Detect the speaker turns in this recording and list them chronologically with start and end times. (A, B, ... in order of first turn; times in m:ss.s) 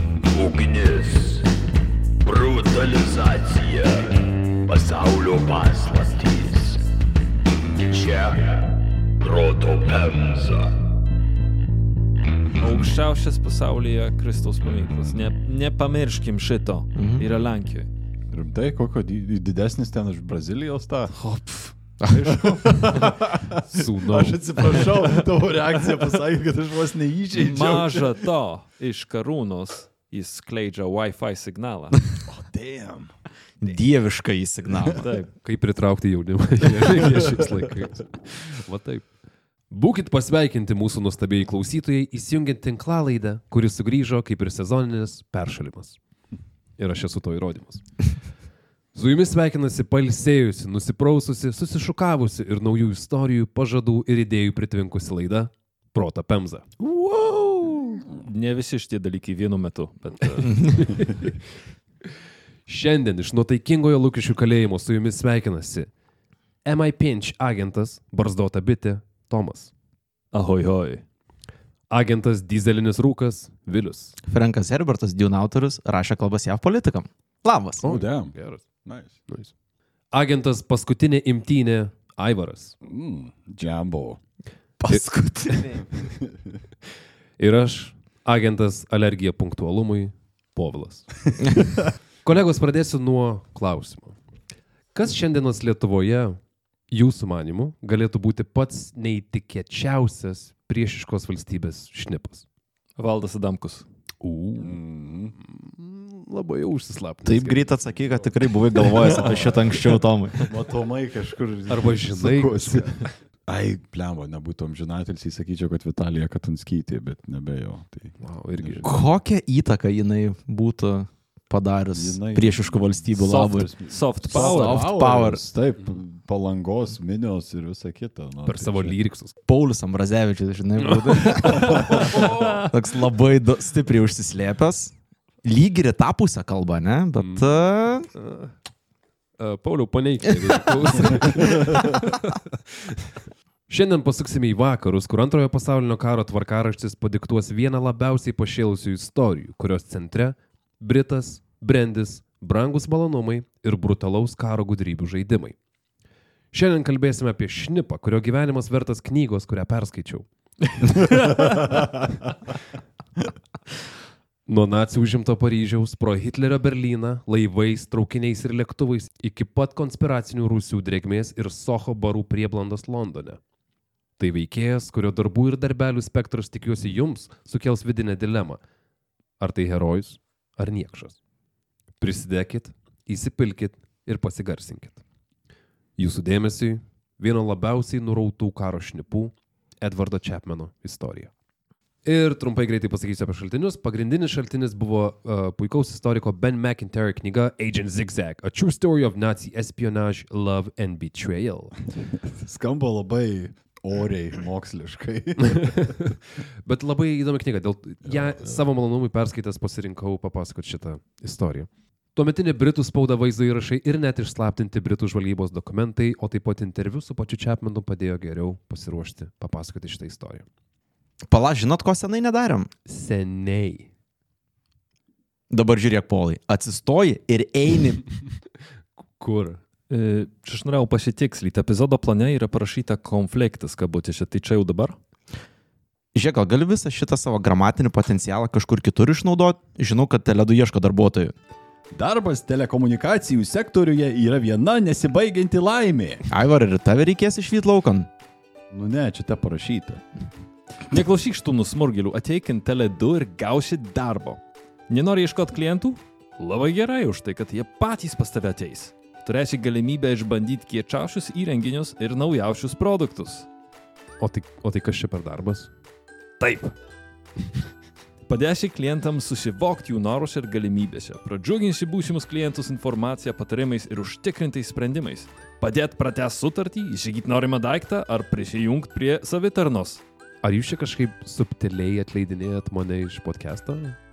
0:00.4-0:01.4 A
0:02.2-0:04.0 A
0:04.7-0:06.6 A
0:07.9-0:08.4 A
0:09.3-0:10.6 A
0:12.6-0:17.9 B
0:16.9-0:17.3 C
0:18.3-0:21.1 D
0:21.1-0:23.1 B
0:22.0-0:22.4 C
0:22.4-0:28.2 D
0:23.6-0:24.6 E
0:27.3-0:32.0 B
0:32.2-0:33.1 D
0:33.6-0:35.1 C
0:35.0-0:35.3 B
0:35.4-0:39.1 E
0:39.7-0:46.0 E
0:46.8-0:47.8 E
0:48.9-0:56.7 E
0:56.8-0:58.0 C
0:58.2-1:01.3 B
1:02.6-1:05.9 E
1:06.6-1:09.7 E
1:10.3-1:11.0 B
1:11.9-1:14.1 E
1:14.3-1:17.8 C
1:17.8-1:18.7 E
1:17.8-1:19.2 D
1:20.1-1:22.8 E
1:22.8-1:24.2 D
1:24.8-1:25.8 C
1:24.9-1:25.8 E
1:27.4-1:31.1 E
1:32.2-1:34.2 E
1:34.9-1:36.4 E
1:36.9-1:42.4 E
1:43.0-1:43.8 B
1:44.2-1:44.8 E
1:44.6-1:45.3 D
1:45.4-1:47.8 E
1:47.2-1:50.5 C
1:48.8-1:49.6 E
1:49.0-1:49.8 D
1:50.4-1:58.9 D
1:51.7-1:53.1 E
1:58.2-1:58.9 E
1:58.8-2:05.4 C
2:02.0-2:09.0 D
2:03.2-2:04.9 B
2:08.4-2:09.4 E
2:09.5-2:18.1 C
2:12.0-2:12.6 E
2:17.2-2:17.5 E
2:18.1-2:18.5 E
2:19.4-2:22.9 E
2:23.7-2:35.6 E
2:36.5-2:40.3 E
2:44.5-2:53.4 E
2:54.2-2:58.6 E
2:59.4-3:01.2 E
3:02.0-3:05.0 E
3:06.0-3:11.3 E
3:12.0-3:21.8 E
3:22.2-3:25.9 D
3:25.4-3:40.4 E
3:28.0-3:28.6 D
3:41.2-3:42.7 C
3:42.9-3:43.9 E
3:45.5-3:48.0 C
3:49.2-3:49.6 E
3:49.9-3:55.0 B
3:56.1-4:01.3 C
4:01.9-4:06.2 D
4:06.3-4:08.1 C
4:08.7-4:10.0 D
4:10.9-4:23.5 B
4:24.2-4:25.7 E
4:26.4-4:26.7 B
4:28.3-4:40.0 B
4:40.4-4:44.0 E